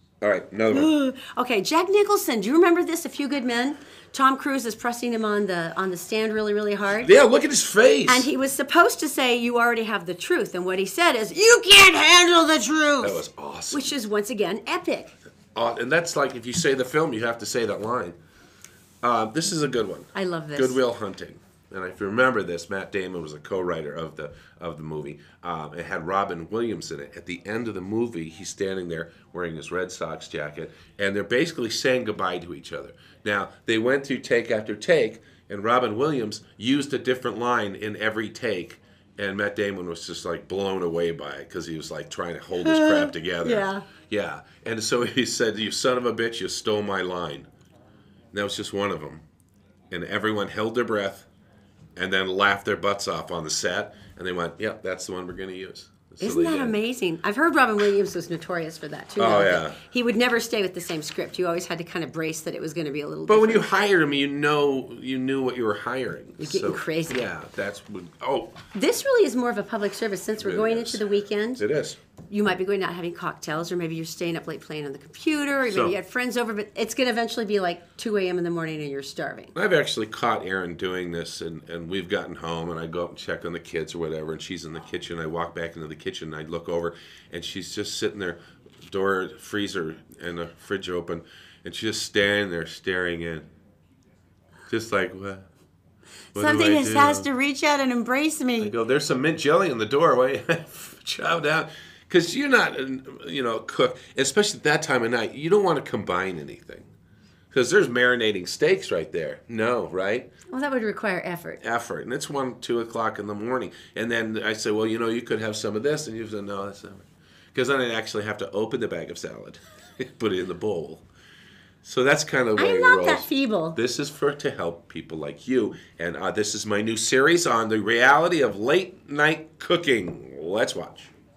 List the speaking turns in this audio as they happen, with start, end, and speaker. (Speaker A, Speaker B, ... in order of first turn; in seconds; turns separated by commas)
Speaker A: 0.2-0.9, Speaker B: 0.7-7.1, Speaker A: 7.0-8.3, Speaker B: 8.1-15.2, Speaker A: 13.0-13.9, Speaker A: 15.5-18.2, Speaker A: 19.0-47.5, Speaker B: 20.1-20.8, Speaker B: 42.6-43.8, Speaker A: 48.3-49.2, Speaker A: 49.9-51.3, Speaker A: 52.0-56.7, Speaker B: 56.2-63.7, Speaker A: 59.2-59.8, Speaker A: 63.3-68.6, Speaker B: 66.4-67.2, Speaker B: 68.7-71.6, Speaker A: 70.4-71.0, Speaker A: 71.6-72.0, Speaker B: 72.3-79.5, Speaker A: 75.7-76.0, Speaker A: 79.5-93.5, Speaker A: 94.7-95.5, Speaker A: 96.3-97.3, Speaker B: 96.3-98.7, Speaker A: 98.6-106.9, Speaker A: 107.5-110.3, Speaker B: 110.5-111.6, Speaker A: 111.6-121.0, Speaker A: 121.8-131.1, Speaker B: 122.5-123.8